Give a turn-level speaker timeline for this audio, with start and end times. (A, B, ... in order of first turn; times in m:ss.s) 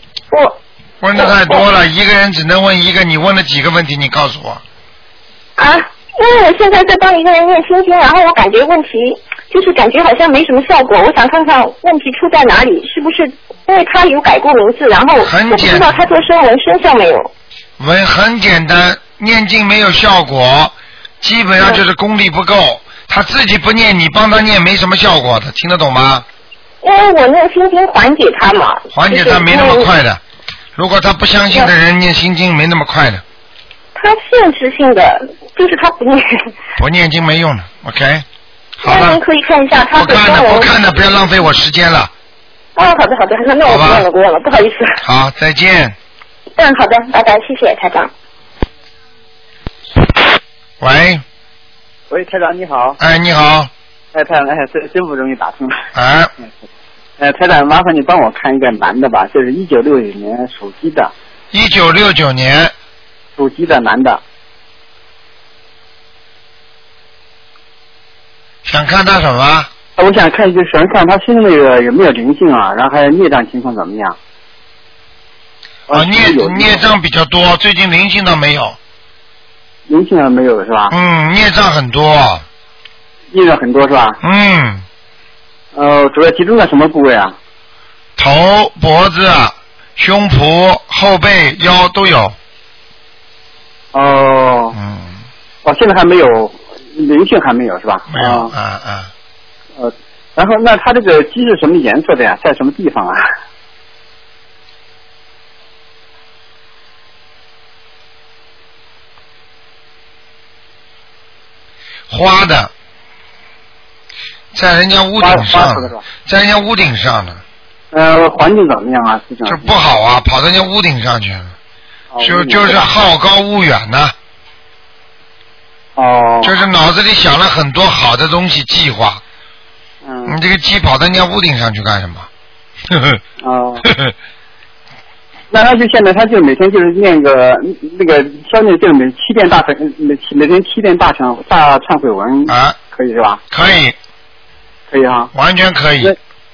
0:00.3-0:00.6 A
0:01.0-0:04.6 B
0:01.1-0:01.6 A
0:05.6-0:17.3 A
0:15.2-0:16.0 B
0:17.8-0:26.2 B
0:26.8-0:29.9 A
0:28.9-0:30.2 B
0:30.8-0:33.2 B
0:34.0-0:36.5 A
0:36.8-0:38.2 B
0:38.8-0:39.2 B
0:38.8-0:40.8 A
0:39.9-0:42.1 B
0:42.8-0:45.0 A
0:43.6-0:44.1 B
0:45.0-0:46.0 B
0:46.6-0:48.1 A
0:50.8-0:51.2 B
0:52.1-0:53.0 C
0:53.0-0:53.7 B
0:54.1-0:55.8 C
0:56.0-0:56.3 B
0:57.2-1:01.1 C
1:01.5-1:02.7 B
1:03.4-1:04.2 C
1:08.6-1:09.7 B
1:10.0-1:14.2 C
1:15.9-1:16.9 C
1:15.9-1:18.8 B
1:19.9-1:20.9 C
1:20.9-1:22.4 B
1:23.3-1:24.2 C
1:24.2-1:24.8 B
1:25.7-1:27.4 C
1:28.2-1:32.4 B
1:33.9-1:34.8 C
1:34.7-1:35.2 B
1:35.6-1:38.5 C
1:38.1-1:39.1 B
1:39.8-1:43.3 C
1:52.1-1:52.7 B
1:54.5-1:57.4 B
1:55.2-1:56.0 C
1:57.9-1:59.8 C
1:59.5-2:01.5 B
2:02.1-2:02.9 C
2:02.2-2:04.1 B
2:06.0-2:06.6 C
2:06.4-2:09.2 B
2:10.0-2:10.4 C
2:10.3-2:12.3 B
2:12.9-2:13.2 B
2:13.4-2:13.9 C
2:13.8-2:14.1 B
2:15.5-2:23.4 C
2:22.5-2:22.8 B
2:23.5-2:24.0 B
2:24.9-2:25.3 C
2:25.3-2:26.2 B